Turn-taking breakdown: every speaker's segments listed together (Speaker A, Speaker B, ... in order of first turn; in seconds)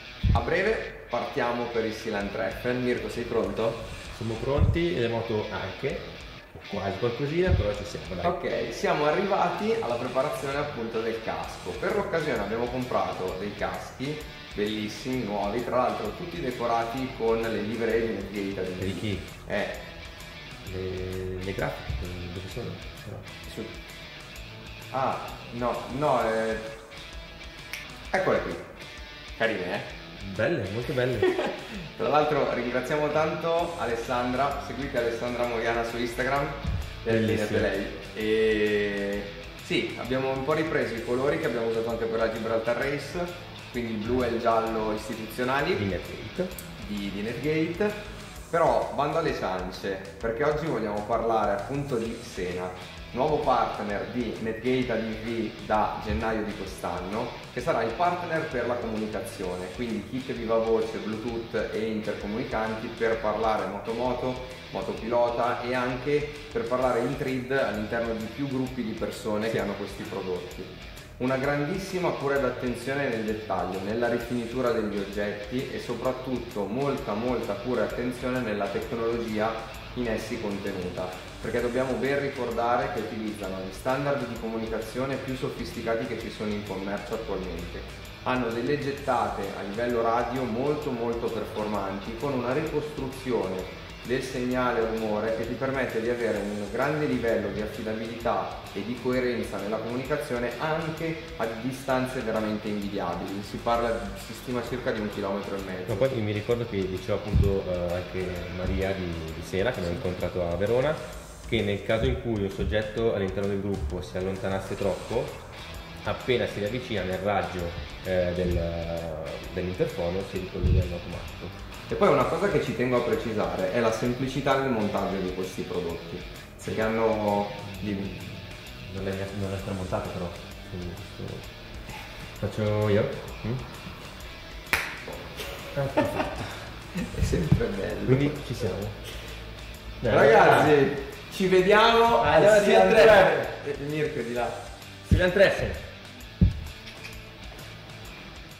Speaker A: 0.3-3.8, 8.2-19.8, 23.4-23.7, 24.9-26.7, 28.1-28.7, 29.4-29.9, 31.2-45.8, 46.8-48.0, 48.5-106.1, 121.9-128.1, 135.5-136.2, 136.9-138.4, 140.1-144.6
Speaker B: 4.1-8.4, 18.8-19.2, 20.6-23.3, 30.2-31.3, 37.1-37.7, 45.7-46.5, 105.9-115.4, 116.0-121.5, 127.6-131.5, 132.4-133.7, 135.7-136.4, 138.1-139.0, 140.0-140.8, 142.2-143.5, 145.0-145.8